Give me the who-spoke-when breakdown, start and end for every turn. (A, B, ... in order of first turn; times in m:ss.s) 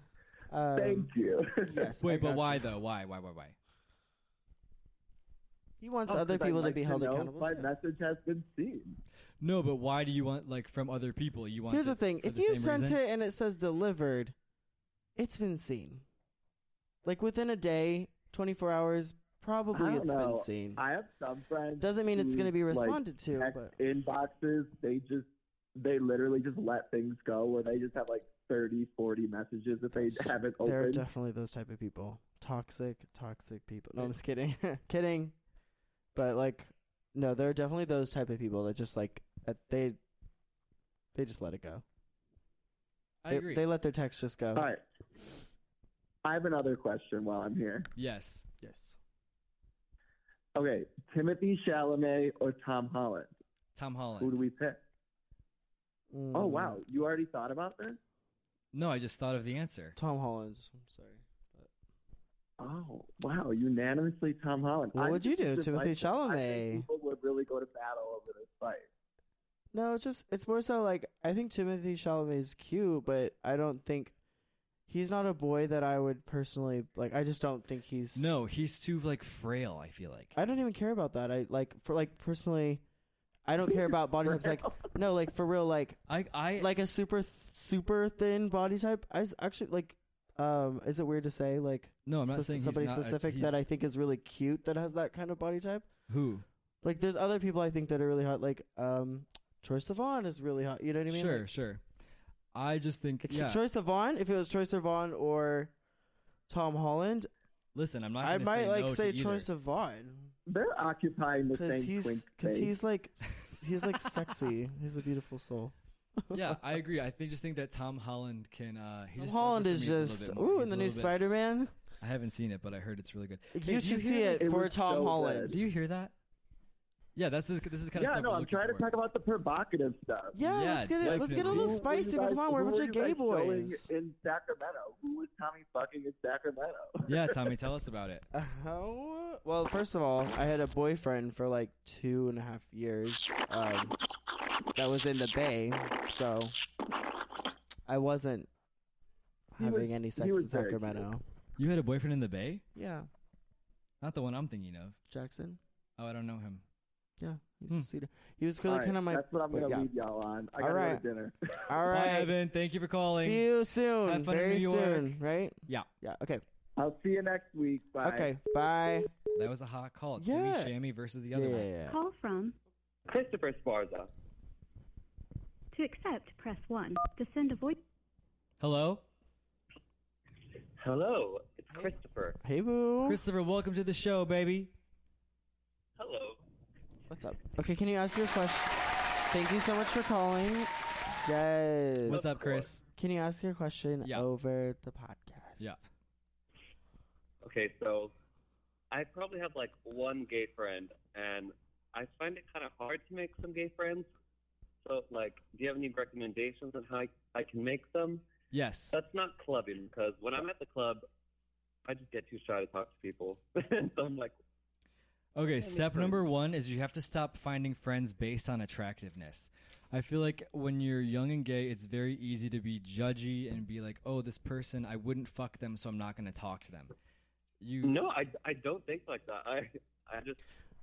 0:00.5-0:01.1 A
0:00.8-0:01.9 B
0:01.6-0:02.7 A
0:02.0-0:03.6 C
0:05.8-0:07.7 A
0:06.1-0:09.0 B
0:09.4-0:13.0 C
0:11.7-0:14.4 A
0:15.2-0:16.0 A
0:17.0-0:20.8 A
0:19.7-0:31.0 B
0:21.8-0:23.8 A
0:29.9-0:35.4 A
0:36.2-0:40.0 A
0:41.2-0:41.8 A
0:43.2-0:43.7 C
0:43.3-0:44.7 A
0:44.6-0:44.8 B
0:46.2-0:47.9 B
0:48.0-0:48.5 C
0:48.6-0:49.0 A
0:50.6-0:53.3 B
0:53.8-0:54.4 C
0:54.2-0:54.8 B
0:56.1-0:56.8 A
0:56.3-0:58.0 B
0:58.7-1:00.0 C
1:00.0-1:01.7 A
1:02.6-1:08.9 B
1:04.9-1:06.9 A
1:09.7-1:14.2 A
1:14.9-1:18.3 A
1:18.2-1:20.4 C
1:20.4-1:22.8 A
1:23.5-1:26.0 A
1:26.1-1:26.7 C
1:26.6-1:35.9 A
1:32.1-1:33.6 C
1:36.1-1:36.4 C
1:36.8-1:41.5 A
1:41.1-1:41.8 C
1:42.5-1:43.6 C
1:43.3-1:45.7 A
1:46.5-1:47.3 A
1:47.8-1:49.5 C
1:48.2-1:50.3 A
1:50.5-1:52.7 B
1:51.5-1:56.6 A
1:56.3-2:01.2 C
1:59.2-2:01.7 A
2:02.0-2:03.6 C
2:03.5-2:05.6 A
2:03.6-2:05.6 B
2:05.5-2:06.1 C
2:07.2-2:08.9 C
2:08.0-2:10.4 B
2:10.3-2:13.9 A
2:10.5-2:11.8 C
2:11.0-2:17.4 B
2:17.1-2:18.3 C
2:18.3-2:24.0 A
2:24.8-2:26.6 A
2:27.9-2:28.5 A
2:29.5-2:31.2 A
2:29.6-2:31.1 B
2:31.6-2:32.6 C
2:32.8-2:33.1 A
2:34.0-2:35.0 C
2:35.1-2:35.6 A
2:36.0-2:36.6 C
2:37.2-2:39.9 A
2:38.7-2:41.6 B
2:40.6-2:41.0 A
2:41.7-2:42.3 A
2:41.9-2:43.5 C
2:43.1-2:46.4 A
2:44.0-2:45.2 C
2:46.8-2:48.3 B
2:48.0-2:49.1 A
2:49.3-2:51.7 C
2:50.2-2:50.7 A
2:51.3-2:52.0 A
2:51.9-2:52.6 D
2:53.1-2:54.1 E
2:55.7-2:57.8 D
2:58.6-2:59.0 C
3:00.8-3:02.4 E
3:02.4-3:03.2 A
3:03.0-3:04.7 C
3:06.0-3:06.4 E
3:07.1-3:12.2 A
3:12.1-3:12.8 C
3:12.1-3:12.7 E
3:13.0-3:15.8 A
3:14.0-3:14.3 C
3:17.4-3:18.1 E
3:18.9-3:24.1 E
3:24.8-3:28.2 E
3:28.5-3:29.0 C
3:28.9-3:31.1 E
3:31.9-3:34.4 E
3:35.4-3:46.9 C
3:35.6-3:36.2 E
3:47.6-3:48.0 C
3:47.8-3:50.4 E